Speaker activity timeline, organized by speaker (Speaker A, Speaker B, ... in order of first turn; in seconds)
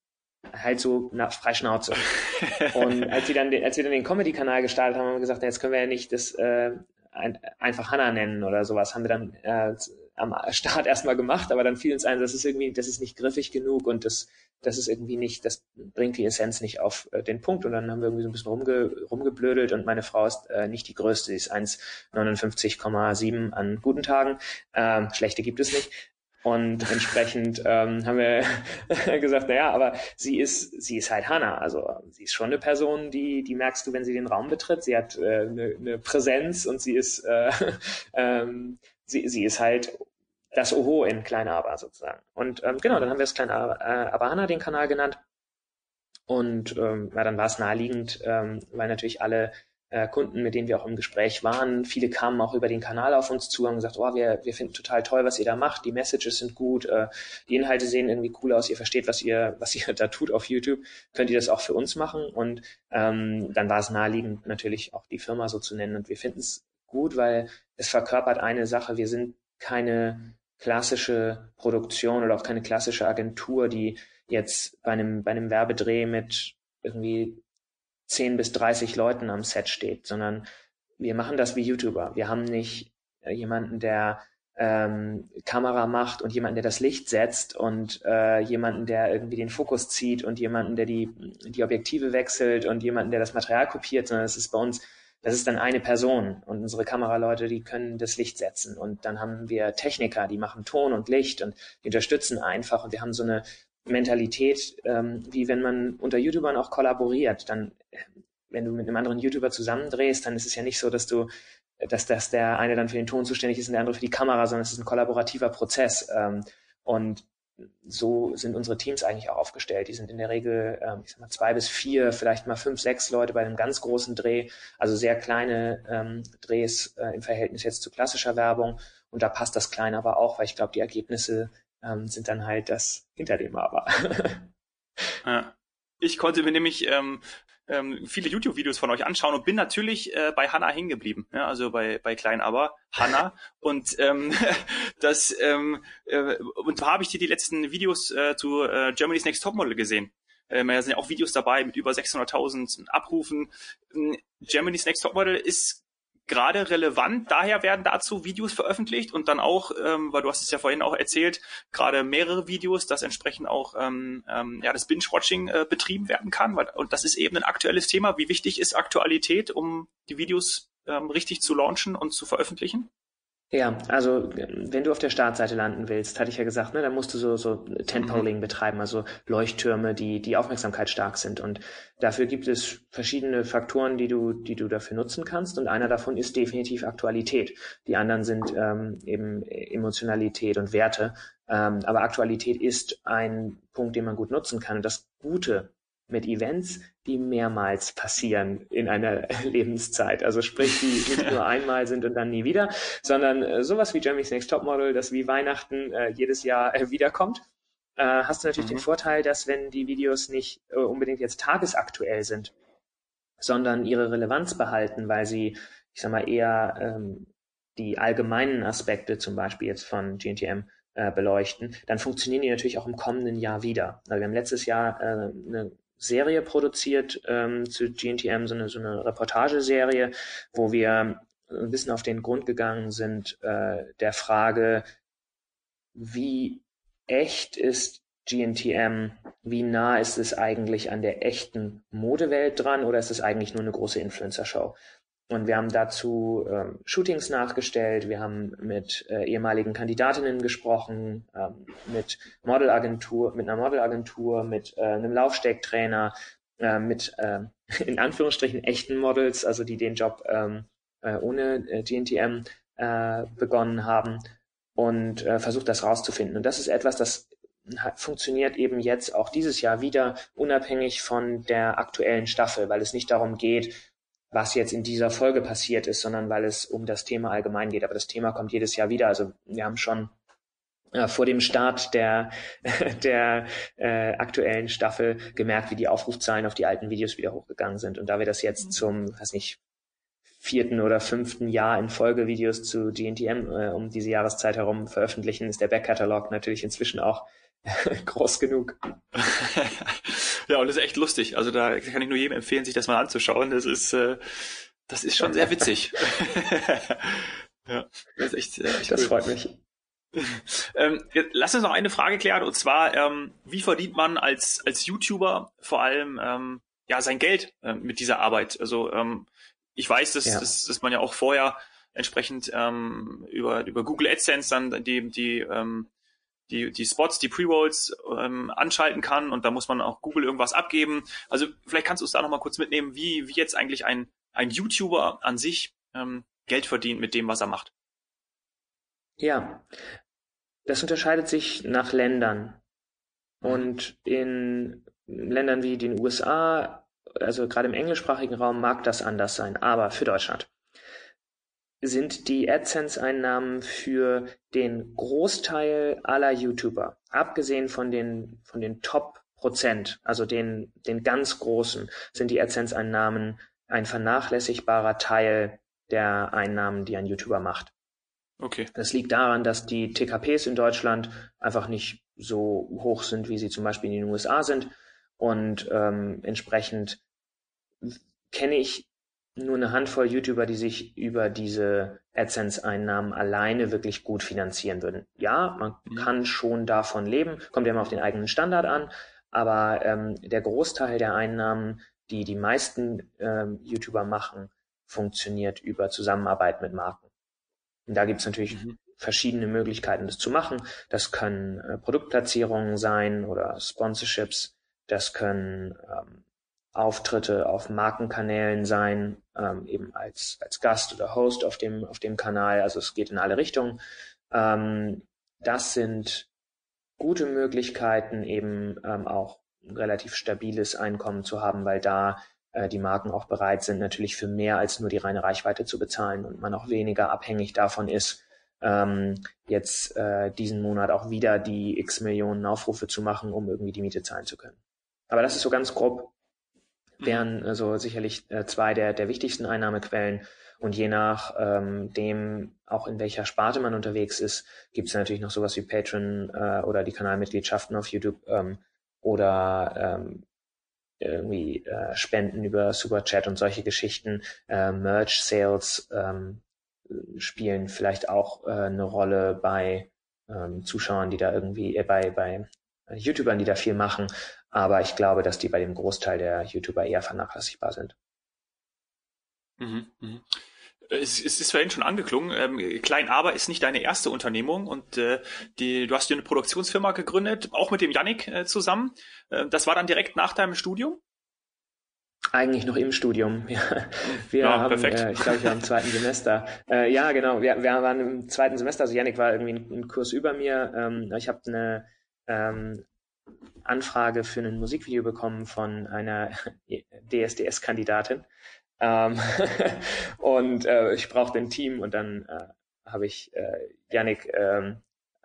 Speaker A: 0.5-45.2, 46.3-77.4, 78.1-80.5, 81.0-111.3, 111.8-134.5, 173.5-207.4, 208.0-212.5, 213.4-234.9, 235.9-244.8, 245.3-264.2, 264.8-273.8, 274.3-280.1, 280.9-289.6, 290.4-298.9, 308.9-309.6, 339.2-339.7, 340.6-342.6, 343.4-350.5, 351.8-367.7, 368.7-377.0, 377.8-397.1, 397.9-406.2, 406.7-413.8, 414.3-416.3, 417.0-434.6, 435.1-436.1, 437.0-450.2, 451.0-467.9, 482.3-492.8, 493.6-498.3, 498.8-504.8
Speaker B: 2.6-3.0, 135.2-172.9, 178.0-178.3, 208.6-208.8, 299.1-309.2, 310.1-325.9, 326.5-337.7, 343.4-343.7, 368.4-368.7, 398.5-398.8, 469.6-481.0, 484.0-485.6